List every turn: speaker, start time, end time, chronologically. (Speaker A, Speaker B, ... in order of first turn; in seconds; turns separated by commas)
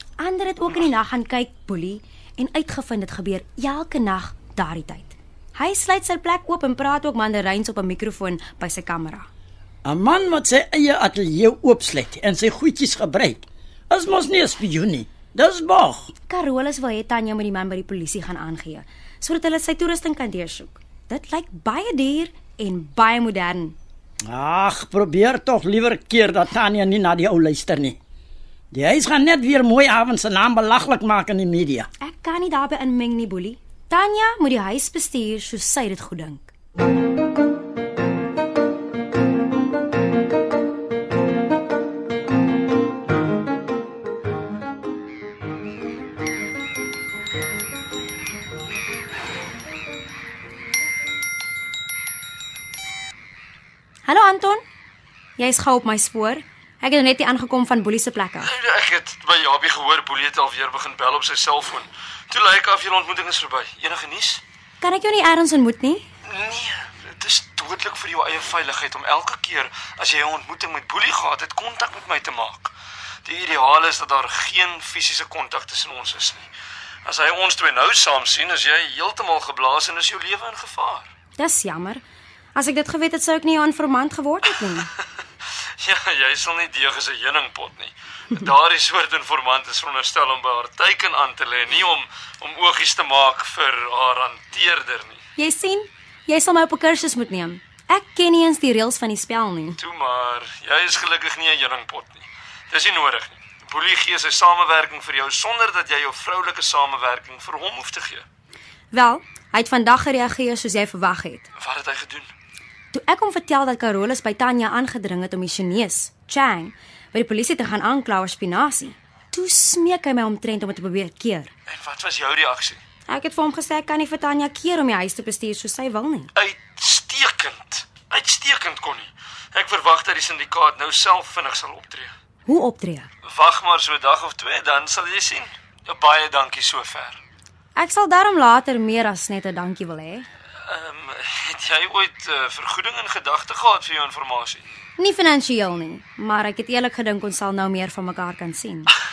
Speaker A: 0.2-9.3, Speaker B: 9.8-16.1, Speaker A: 16.3-23.8, Speaker B: 24.3-28.0, Speaker B: 28.7-31.9, Speaker A: 32.0-36.5, Speaker A: 54.1-54.6, Speaker A: 55.4-58.5, Speaker C: 58.4-64.4, Speaker A: 64.8-66.0, Speaker C: 66.3-72.7, Speaker C: 73.2-76.5, Speaker C: 77.0-81.1, Speaker A: 81.4-82.0, Speaker A: 82.5-84.9, Speaker C: 85.8-95.2, Speaker A: 95.4-99.8, Speaker C: 99.8-108.2, Speaker A: 108.9-111.5, Speaker C: 111.6-112.3, Speaker A: 112.9-121.5, Speaker C: 121.7-122.8, Speaker A: 123.1-126.3, Speaker C: 126.3-132.1, Speaker A: 132.4-133.1, Speaker C: 133.2-137.2, Speaker A: 137.8-140.3, Speaker C: 140.7-144.7, Speaker A: 145.0-148.9